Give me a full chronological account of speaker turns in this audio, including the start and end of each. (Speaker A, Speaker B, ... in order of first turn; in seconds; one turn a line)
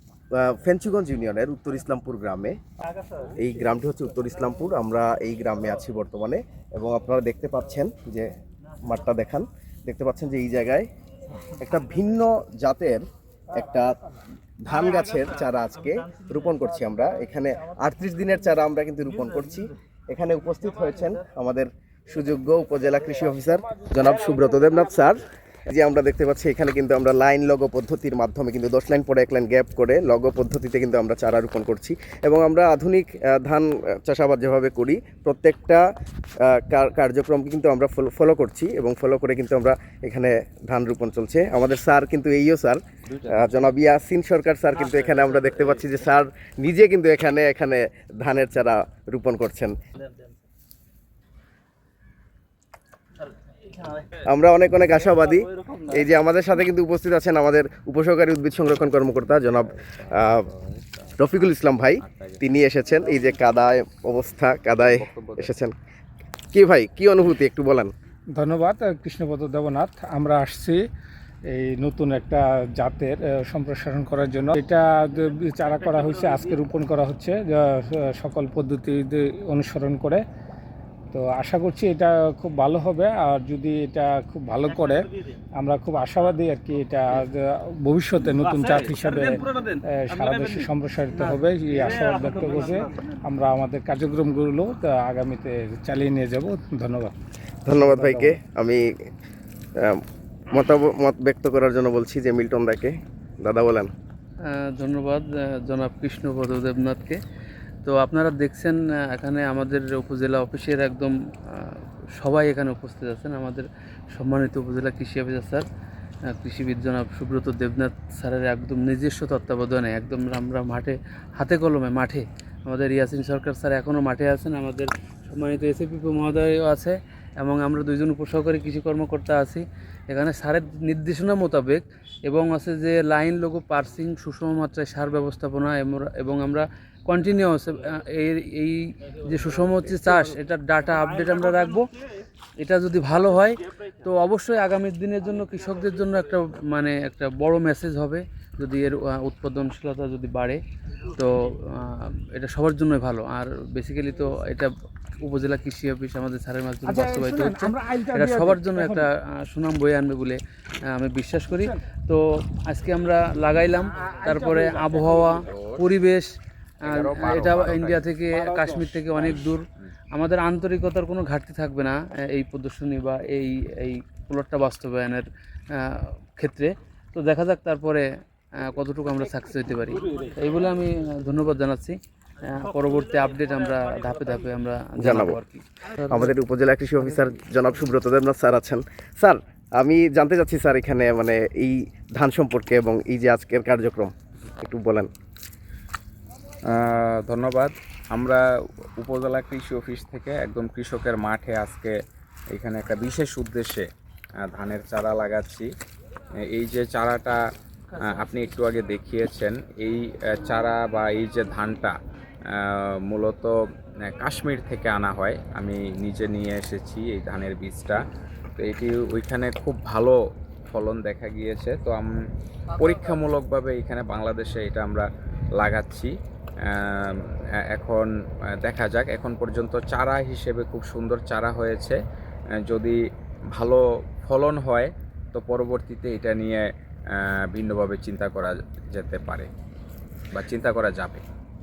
Speaker A: 0.3-2.6
Speaker A: 3.3-8.3
Speaker A: 8.8-10.9
Speaker A: 11.6-13.9
Speaker A: 14.6-35.8
Speaker A: 36.4-49.8
Speaker A: 54.2-60.4
Speaker B: 59.6-61.3
Speaker A: 61.2-65.7
Speaker B: 62.0-62.4
Speaker B: 64.8-65.5
Speaker A: 66.5-67.9
Speaker C: 68.4-70.8
Speaker C: 71.5-80.2
Speaker C: 81.1-85.1
Speaker C: 85.6-97.1
Speaker A: 97.6-98.9
Speaker C: 97.7-98.4
Speaker A: 99.8-103.9
Speaker D: 104.4-107.2
Speaker D: 107.8-115.7
Speaker D: 116.2-141.9
Speaker D: 142.6-166.3
Speaker C: 156.8-159.1
Speaker C: 164.1-165.0
Speaker B: 165.4-165.9
Speaker B: 166.8-168.1
Speaker D: 166.9-186.3
Speaker C: 168.3-169.4
Speaker A: 185.0-185.4
Speaker A: 186.1-195.1
Speaker D: 187.0-187.3
Speaker B: 196.7-198.4
Speaker B: 199.0-202.0
Speaker B: 202.5-203.9
Speaker B: 204.5-205.7
Speaker B: 206.5-207.4
Speaker B: 208.0-211.9
Speaker B: 212.5-218.0
Speaker B: 218.6-220.2
Speaker B: 220.7-222.1
Speaker B: 222.7-226.1
Speaker B: 226.6-227.2
Speaker B: 227.7-228.1
Speaker B: 228.6-232.0
Speaker B: 232.7-233.0
Speaker B: 233.5-239.5
Speaker B: 240.3-241.2